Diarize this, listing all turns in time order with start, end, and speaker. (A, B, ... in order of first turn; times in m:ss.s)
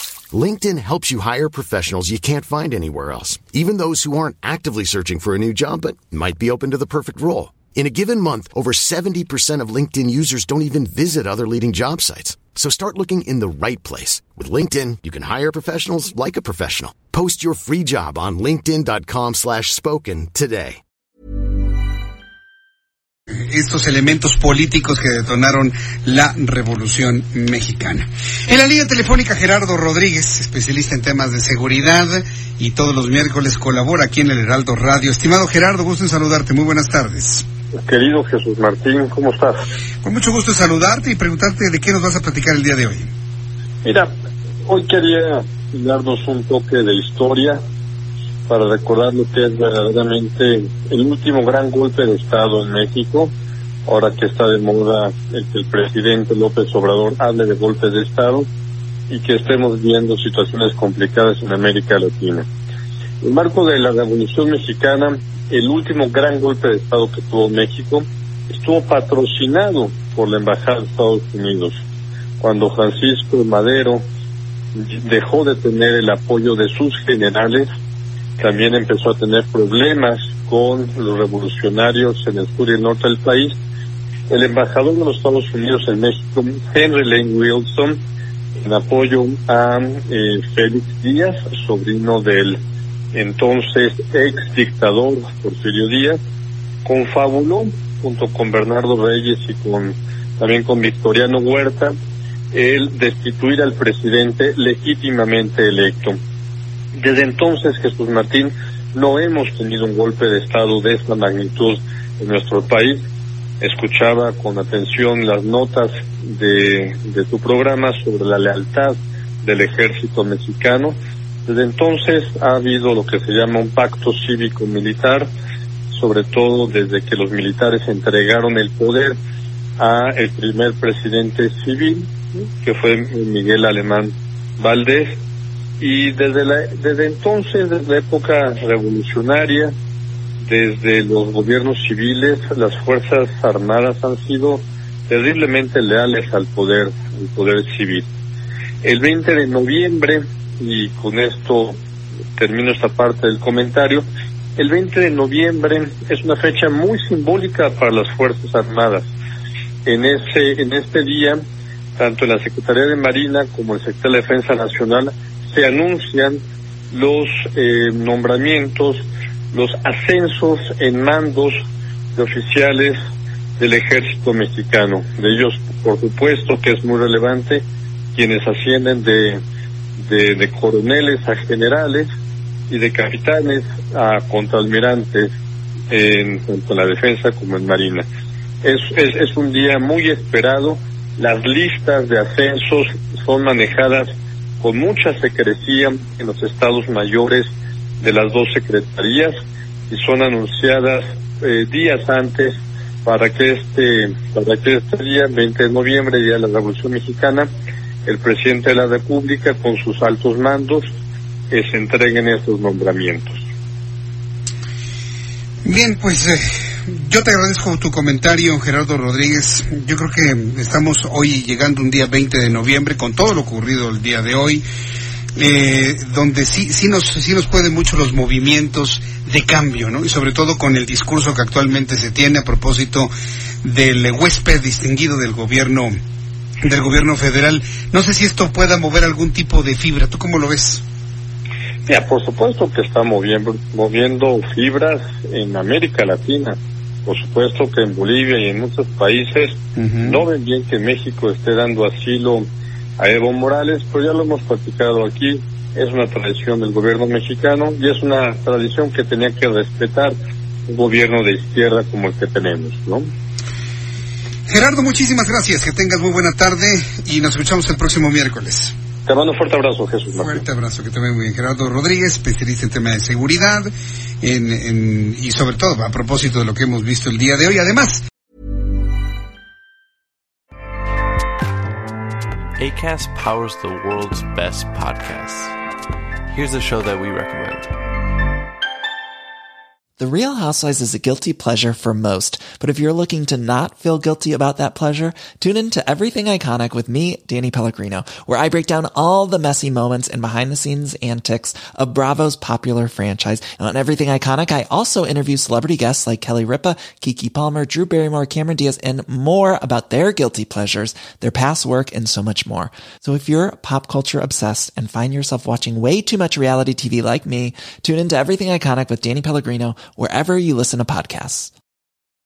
0:00.3-0:20.8 A
0:23.5-0:37.4 B
0:37.8-0:39.6 C
0:40.0-0:43.1 B
0:43.8-0:44.1 C
0:44.6-0:47.6 C
0:48.5-0:53.3 C
0:53.8-0:58.5 C
0:59.1-1:02.5 C
1:03.2-1:11.8 C
1:12.4-1:14.0 C
1:14.7-1:17.7 C
1:18.4-1:23.5 C
1:24.3-1:28.0 C
1:28.6-1:32.6 C
1:33.1-1:36.2 C
1:36.8-1:41.9 C
1:42.5-1:46.2 C
1:47.0-1:53.0 C
1:53.6-2:05.3 C
2:05.9-2:09.2 C
2:09.8-2:12.1 C
2:12.6-2:15.2 C
2:15.8-2:19.7 C
2:20.4-2:28.0 C
2:28.8-2:31.8 C
2:32.4-2:34.0 C
2:34.6-2:39.1 C
2:39.8-2:41.4 C
2:42.0-2:51.5 C
2:52.2-2:53.0 C
2:53.6-2:57.6 C
2:58.1-2:59.4 C
3:00.0-3:02.1 C
3:02.7-3:05.3 C
3:05.9-3:08.0 C
3:08.6-3:14.1 C
3:14.6-3:17.5 C
3:18.0-3:19.3 C
3:19.9-3:27.5 C
3:28.0-3:30.8 C
3:31.5-3:33.4 C
3:35.6-3:44.6 B
3:45.4-3:53.1 B
3:53.6-3:55.9 B
3:56.6-4:00.8 B
4:01.9-4:12.5 C
4:13.0-4:20.1 C
4:20.7-4:23.0 C
4:24.5-4:28.7 B
4:29.0-4:30.4 C
4:30.1-4:33.7 B
4:34.2-4:38.0 B
4:42.6-4:45.6 D
4:46.3-4:47.7 D
4:50.0-5:21.5 E